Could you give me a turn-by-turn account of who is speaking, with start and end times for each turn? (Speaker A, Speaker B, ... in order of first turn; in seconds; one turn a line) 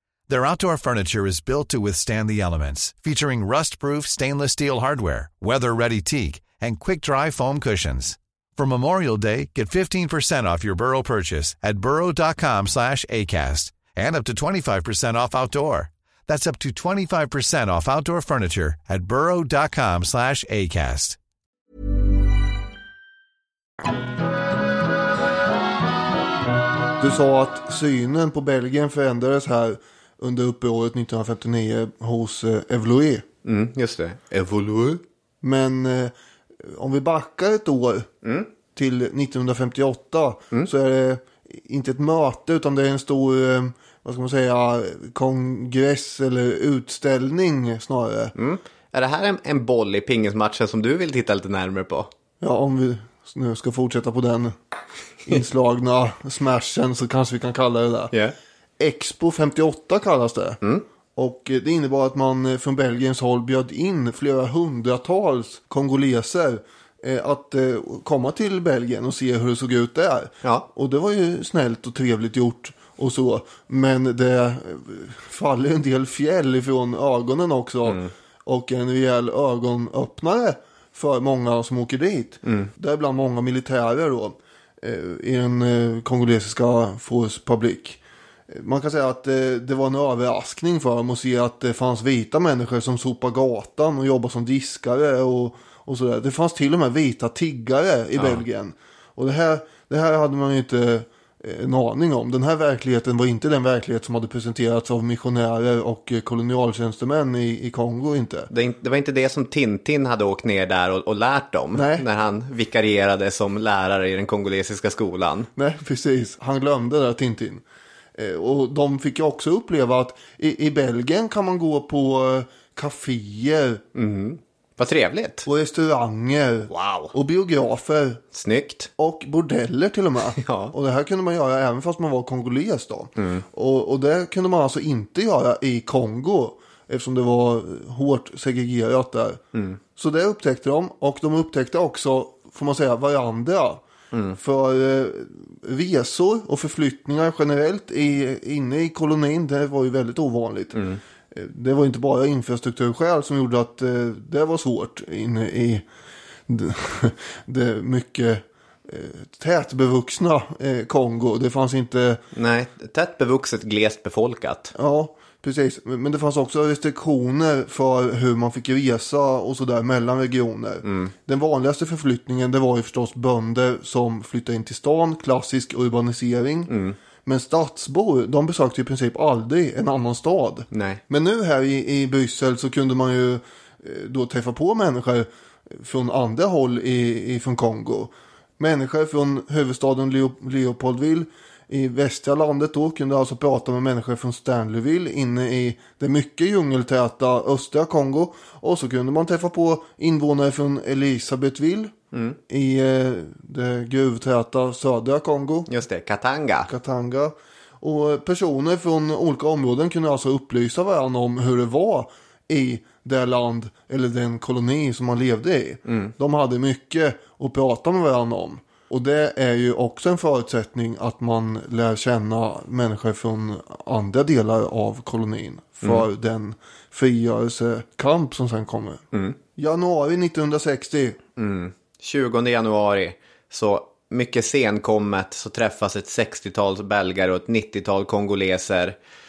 Speaker A: 0.3-21.2
Speaker B: 27.0-33.3
Speaker C: 33.5-35.0
Speaker B: 35.4-38.1
Speaker C: 38.2-38.5
Speaker B: 38.7-48.3
Speaker C: 48.4-52.1
Speaker B: 52.4-54.5
Speaker B: 55.3-58.1
Speaker B: 58.8-60.6
Speaker B: 61.2-108.5
Speaker C: 77.8-78.1
Speaker C: 82.4-82.7
Speaker C: 98.2-98.4
Speaker C: 108.5-115.5
Speaker B: 111.7-112.0
Speaker B: 115.6-117.6
Speaker B: 118.2-123.8
Speaker C: 124.0-125.5
Speaker B: 125.5-128.2
Speaker C: 126.7-127.1
Speaker C: 128.3-128.9
Speaker B: 129.0-139.4
Speaker C: 130.4-130.7
Speaker C: 133.2-133.4
Speaker C: 139.5-139.8
Speaker B: 140.0-143.8
Speaker C: 144.1-144.4
Speaker B: 144.4-155.8
Speaker C: 150.8-151.0
Speaker B: 156.5-162.2
Speaker C: 162.3-164.7
Speaker B: 164.8-176.7
Speaker C: 170.8-171.1
Speaker C: 176.7-177.0
Speaker B: 177.2-201.9
Speaker C: 180.7-181.0
Speaker C: 202.1-202.4
Speaker B: 202.5-205.7
Speaker C: 205.7-206.7
Speaker B: 206.7-229.0
Speaker C: 215.9-216.1
Speaker C: 225.8-226.1
Speaker C: 229.1-229.4
Speaker B: 229.6-231.2
Speaker C: 231.4-239.0